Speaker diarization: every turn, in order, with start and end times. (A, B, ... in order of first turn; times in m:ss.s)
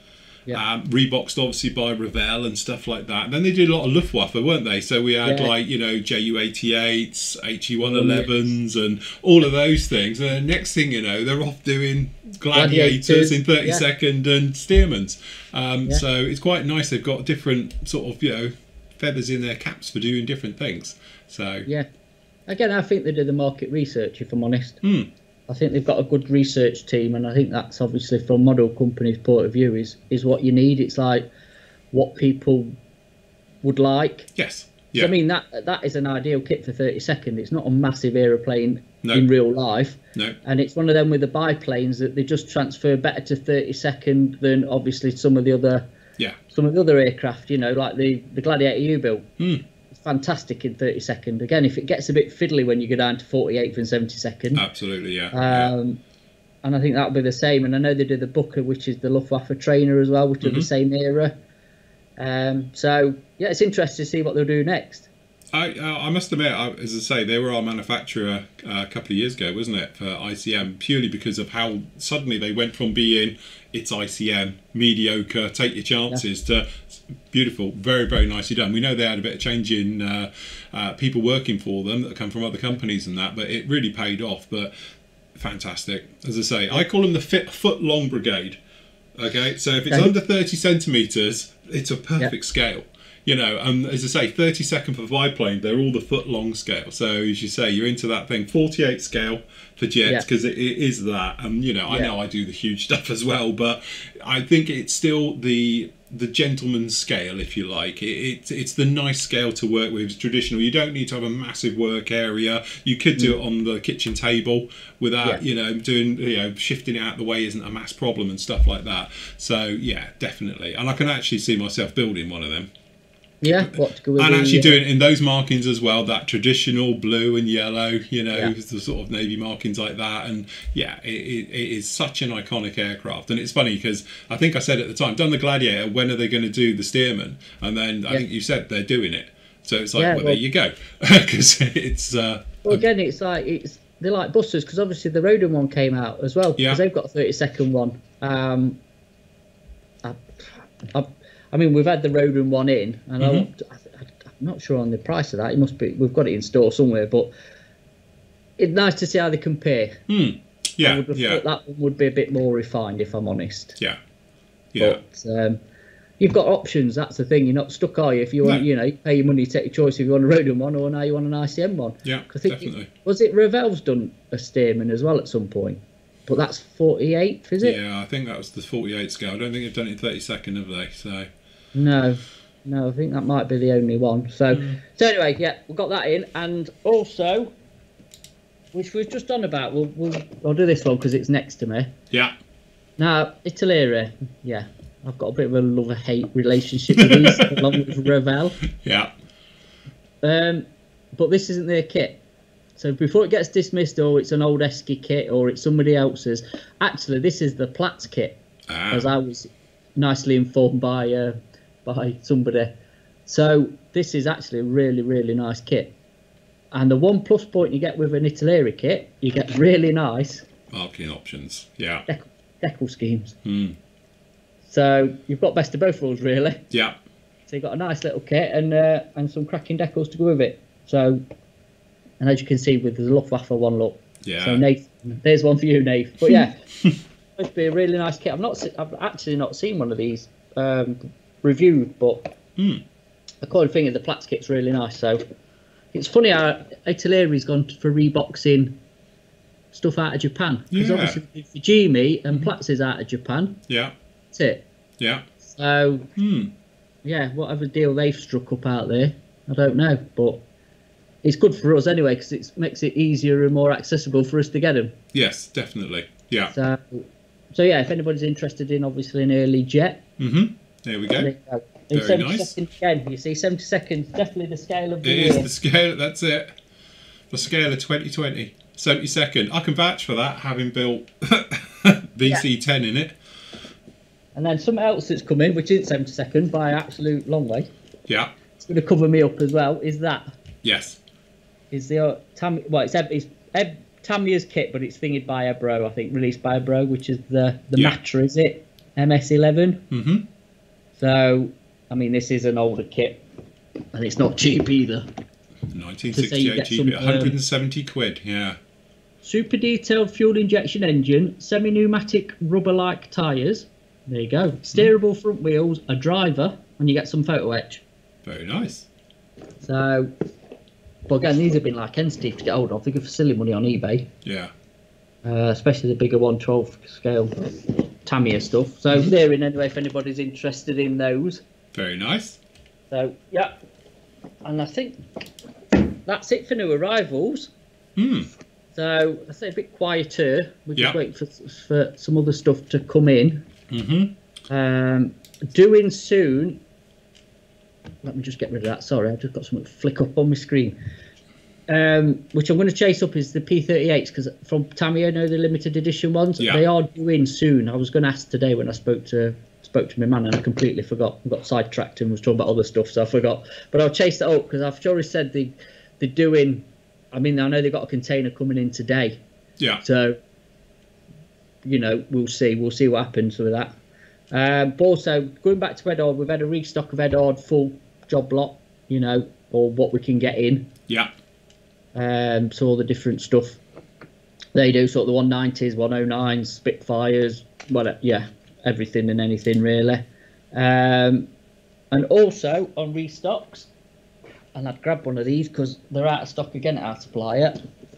0:00.5-0:21.7 A
0:05.2-0:05.5 B
0:07.8-0:08.3 B
0:12.5-0:13.8 B
0:22.5-0:24.8 B
0:24.8-0:25.1 A
0:25.5-0:31.2 B
0:31.9-0:32.7 B
0:33.6-0:34.3 B
0:34.3-0:35.1 A
0:34.9-0:45.8 B
0:46.5-0:49.3 B
0:49.4-0:49.6 A
0:49.9-0:54.6 B
0:54.5-0:55.7 A
0:55.3-0:56.0 B
0:56.6-1:01.3 B
1:00.4-1:00.7 A
1:02.2-1:05.1 B
1:05.5-1:24.7 A
1:25.3-1:28.6 A
1:29.2-2:02.7 A
2:03.4-2:04.8 B
2:03.4-2:22.8 A
2:19.9-2:20.4 B
2:22.6-2:28.8 B
2:30.0-2:37.3 B
2:33.2-2:33.5 A
2:38.6-2:40.0 B
2:40.1-2:41.4 A
2:40.8-2:43.8 B
2:44.7-2:45.0 A
2:44.8-2:45.6 B
2:46.2-2:57.8 B
2:52.0-2:52.9 A
2:57.6-3:01.3 A
3:01.7-3:07.5 B
3:04.5-3:04.8 A
3:08.7-3:11.9 B
3:13.0-3:18.6 B
3:17.0-3:17.8 A
3:18.7-3:19.1 A
3:20.2-3:22.2 B
3:22.8-3:28.4 B
3:28.7-3:29.1 A
3:28.9-3:32.7 B
3:33.2-3:35.9 B
3:36.7-3:40.4 B
3:40.7-3:42.0 A
3:42.1-3:43.4 B
3:43.4-3:43.8 A
3:44.7-3:46.6 B
3:46.7-3:47.0 A
3:47.5-3:51.2 B
3:52.2-3:56.6 B
3:54.2-3:54.6 A
3:56.3-3:57.0 A
3:57.4-4:02.3 B
4:02.6-4:02.8 A
4:03.4-4:05.2 B
4:05.9-4:08.8 B
4:09.7-4:13.6 B
4:10.7-4:11.2 A
4:13.7-4:13.9 A
4:14.3-4:14.6 B
4:15.0-4:15.2 A
4:15.4-4:16.1 B
4:16.2-4:16.5 A
4:17.0-4:20.4 B
4:21.2-4:25.0 B
4:25.1-4:26.5 A
4:26.5-4:30.1 B
4:30.2-4:31.3 A
4:31.2-4:35.5 B
4:31.9-4:32.5 A
4:35.0-4:36.5 A
4:37.3-4:43.2 A
4:44.3-4:47.7 B
4:48.6-4:50.2 B
4:50.6-4:51.0 A
4:51.7-4:59.8 B
4:59.9-5:00.3 A
5:01.0-5:03.2 B
5:03.9-5:05.0 B
5:05.7-5:08.6 A
5:06.1-5:07.3 B
5:09.2-5:17.8 B
5:18.2-5:18.9 A
5:19.6-5:20.1 B
5:21.1-5:24.1 B
5:24.2-5:24.5 A
5:25.2-5:31.4 B
5:31.7-5:32.4 A
5:32.9-5:33.5 B
5:34.4-5:35.0 B
5:36.0-5:37.5 B
5:38.0-5:38.3 A
5:38.7-5:43.5 B
5:43.7-5:44.1 A
5:44.5-5:46.6 B
5:48.0-5:50.8 B
5:51.7-6:09.2 B
5:56.4-5:56.6 A
6:09.8-6:10.2 B
6:11.6-6:13.7 B
6:14.3-6:20.7 B
6:21.9-6:23.6 B
6:24.5-6:31.3 B
6:31.9-6:33.7 B
6:34.5-6:37.6 B